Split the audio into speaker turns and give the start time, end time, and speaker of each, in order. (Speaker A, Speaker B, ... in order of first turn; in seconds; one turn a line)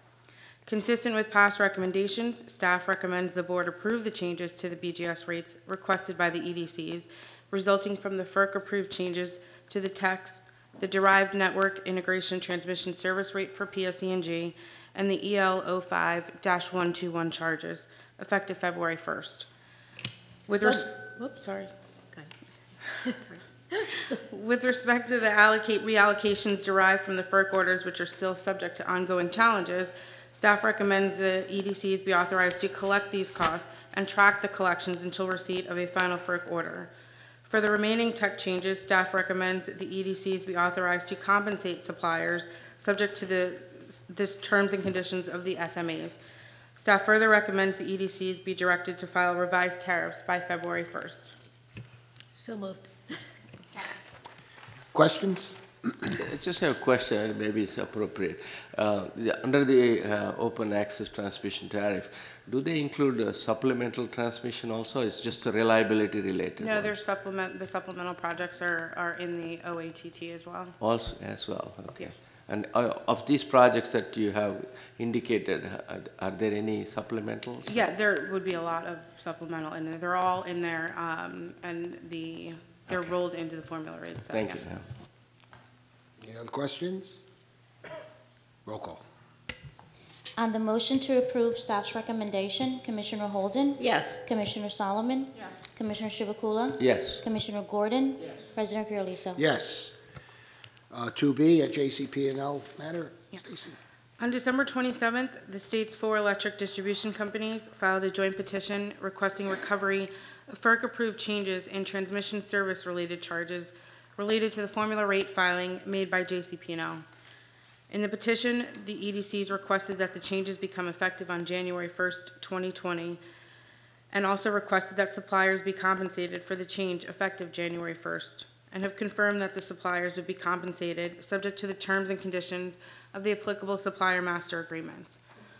Speaker A: 0.7-19.5
Speaker A: 20.5-21.7
Speaker B: 20.5-21.5
Speaker B: 22.9-24.1
Speaker A: 24.2-36.9
Speaker A: 37.5-46.2
Speaker A: 46.8-51.3
Speaker B: 52.3-52.9
Speaker C: 54.9-55.9
Speaker D: 56.1-66.9
Speaker A: 66.6-70.7
Speaker D: 70.8-77.7
Speaker A: 77.7-84.6
Speaker D: 84.3-84.8
Speaker C: 86.2-87.2
Speaker C: 88.6-89.0
Speaker E: 90.4-99.4
Speaker B: 93.8-94.2
Speaker D: 96.8-97.2
Speaker C: 99.3-100.0
Speaker C: 100.9-103.8
Speaker A: 104.2-117.0
Speaker A: 117.9-123.2
Speaker A: 124.1-135.2